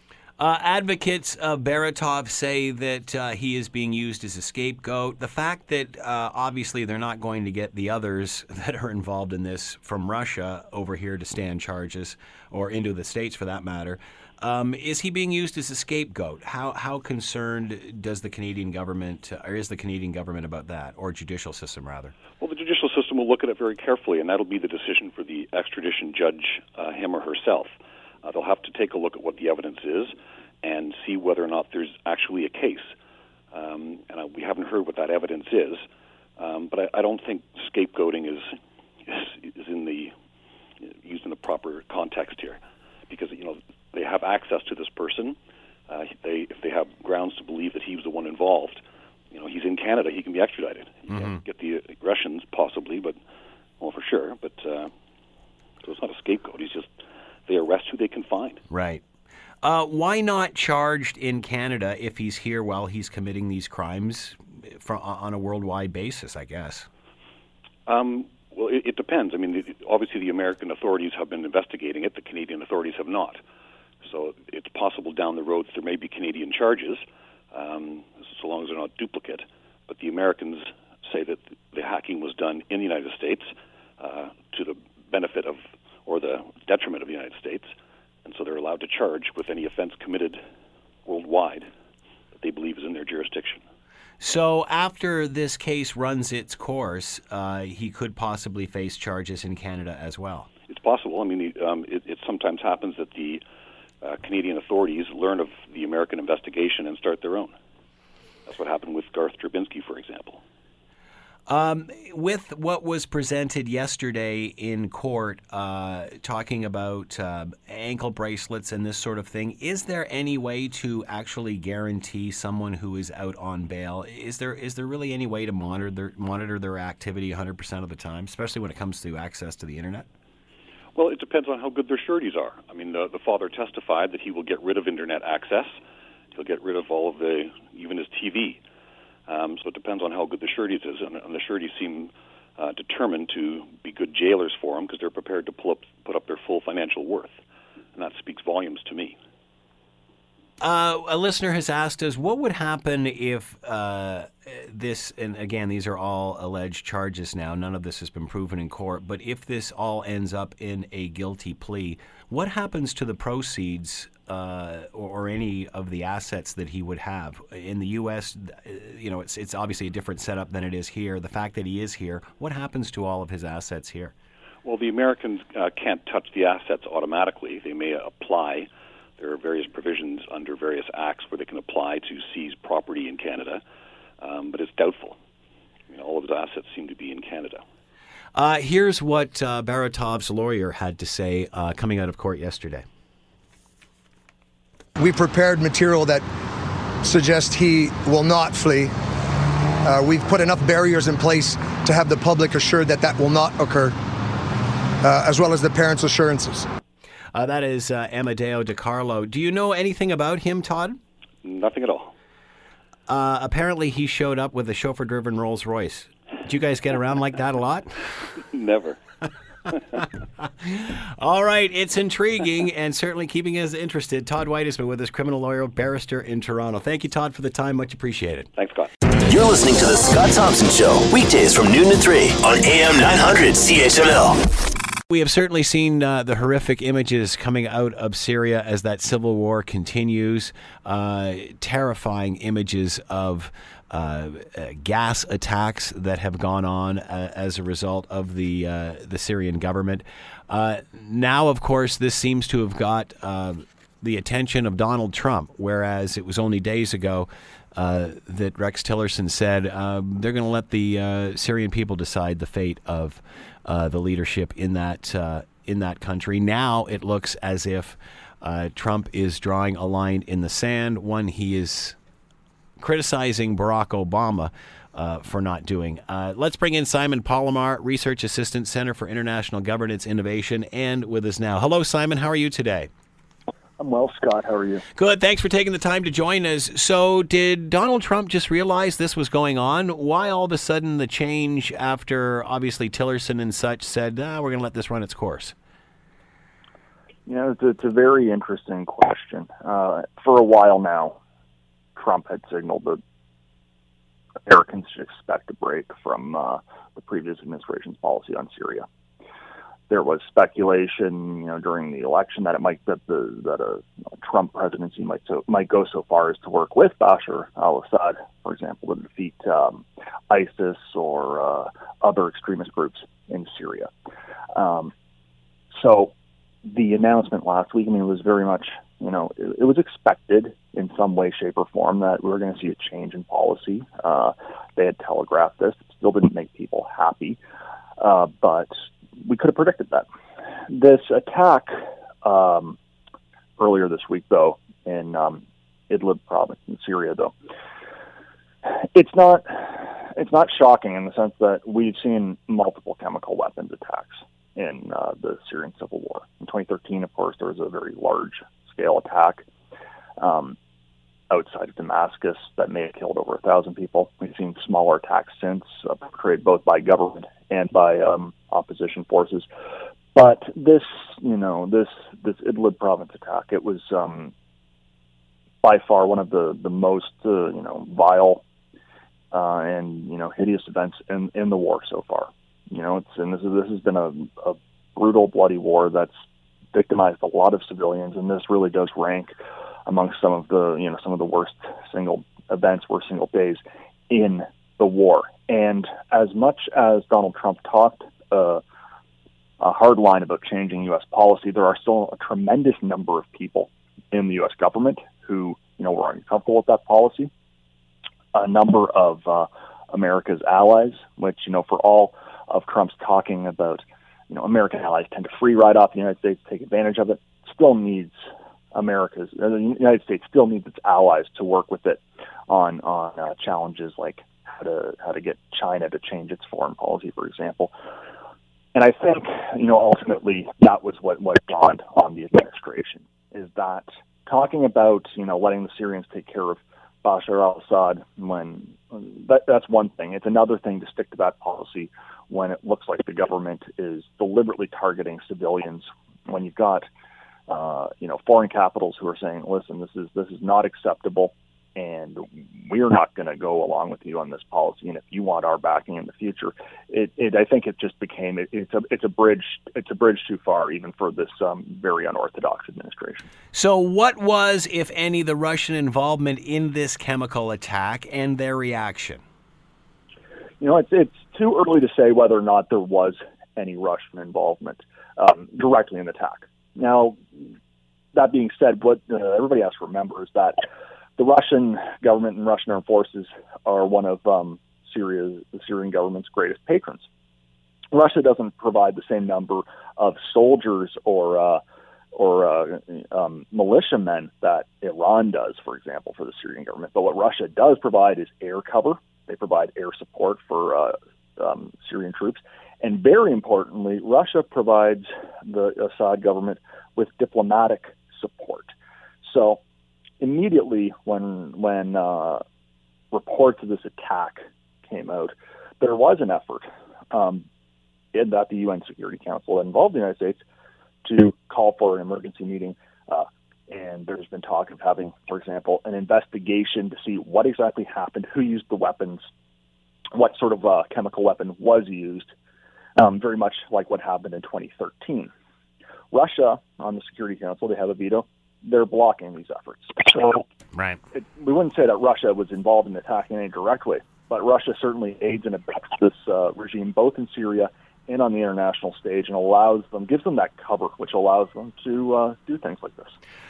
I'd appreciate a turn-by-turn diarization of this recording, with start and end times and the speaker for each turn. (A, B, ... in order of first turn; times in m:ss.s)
0:00.4-0:22.1 A
0:22.4-0:27.7 B
0:28.2-0:32.9 B
0:33.5-0:35.8 B
0:36.4-0:38.5 B
0:39.1-0:40.1 B
0:40.8-0:45.4 B
0:45.9-0:53.2 B
0:51.1-0:51.4 A
0:53.8-0:54.9 B
0:55.8-0:56.9 B
0:57.5-0:58.6 B
0:58.7-0:59.0 A
0:59.6-1:06.9 A
1:07.8-1:13.4 B
1:14.0-1:27.7 B
1:28.2-1:30.4 B
1:31.0-1:31.7 B
1:32.3-1:33.6 B
1:34.2-1:40.5 A
1:40.7-1:43.4 B
1:44.0-1:47.5 B
1:48.4-1:50.4 B
1:51.5-2:10.0 A
2:10.9-2:15.7 B
2:16.3-2:18.6 B
2:19.3-2:27.4 B
2:27.9-2:29.2 B
2:30.6-2:54.1 A
2:54.6-3:03.6 B
3:04.2-3:05.2 B
3:05.9-3:07.6 B
3:08.3-3:12.8 A
3:15.0-3:16.2 C
3:17.0-3:18.9 C
3:19.8-3:24.0 C
3:25.0-3:26.7 C
3:27.3-3:31.0 A
3:31.4-3:32.1 B
3:33.1-3:38.0 A
3:38.4-3:39.0 B
3:40.4-3:48.5 A
3:48.6-3:48.9 B
3:49.2-3:54.7 D
3:55.1-4:32.0 A
4:32.8-4:42.9 A
4:43.8-4:44.8 E
4:45.0-4:55.5 A
4:57.2-5:01.2 E
5:02.0-5:03.0 E
5:04.4-5:08.8 E
5:09.9-5:23.9 E
5:24.5-5:24.9 E
5:25.7-5:26.1 E
5:26.7-5:37.4 E
5:38.0-5:40.0 E
5:40.7-5:42.8 E
5:43.6-5:47.3 E
5:48.6-5:59.5 E
6:00.2-6:00.6 E
6:01.3-6:09.5 E
6:10.1-6:14.3 E
6:15.6-6:18.4 E
6:19.3-6:26.1 E
6:26.7-6:29.3 E
6:29.9-6:38.6 E
6:39.6-6:47.3 E
6:48.3-6:58.2 E
6:58.7-7:07.7 E
7:08.7-7:26.8 E
7:27.5-7:43.3 E
7:43.5-7:49.2 A
7:50.6-7:57.4 E
7:58.1-8:00.6 E
8:01.2-8:07.0 E
8:07.9-8:11.6 E
8:12.1-8:28.7 E
8:29.2-8:29.6 E
8:30.2-8:32.4 E
8:33.1-8:37.4 E
8:38.1-8:40.4 E
8:41.0-8:49.2 E
8:50.1-8:52.3 E
8:53.0-8:55.3 E
8:56.1-9:00.4 E
9:00.7-9:01.0 A
9:01.1-9:13.1 E